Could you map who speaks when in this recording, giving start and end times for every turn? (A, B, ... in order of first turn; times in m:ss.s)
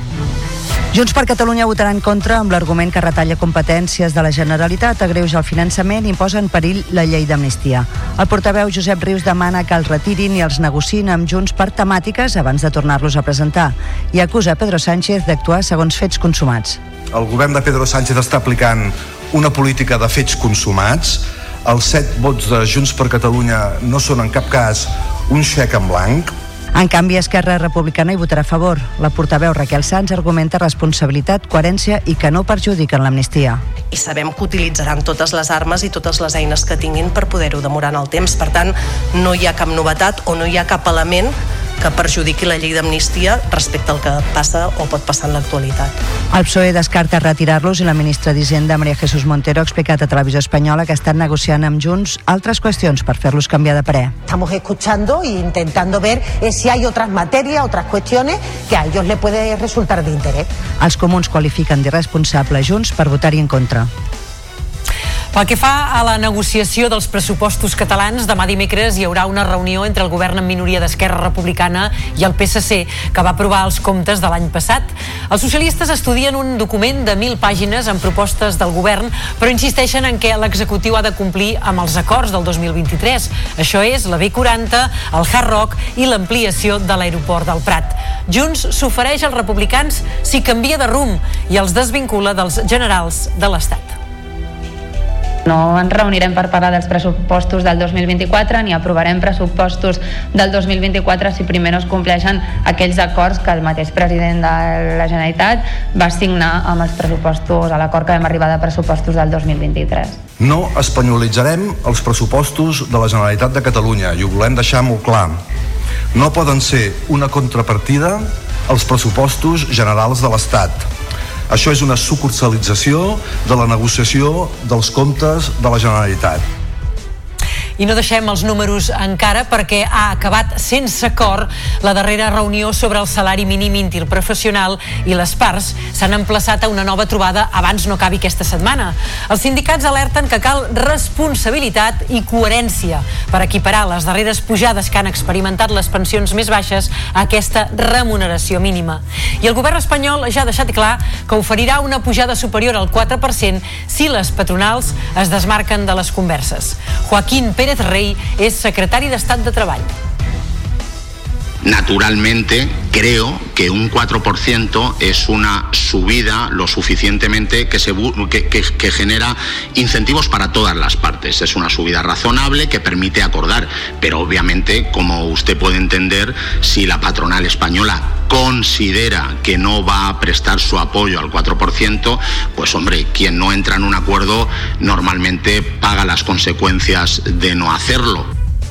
0:00.9-0:16.8 A
0:17.1-0:26.3 B
0:26.7-0:33.6 A
0:33.9-0:45.9 C
0:46.3-0:54.1 A
0:54.2-1:00.5 D
1:00.8-1:03.9 A
1:05.3-1:34.0 E
1:35.4-1:50.2 F
1:50.4-1:55.4 B
1:56.1-2:00.8 B
2:01.5-2:06.4 B
2:07.8-2:39.9 E
2:41.6-3:08.3 G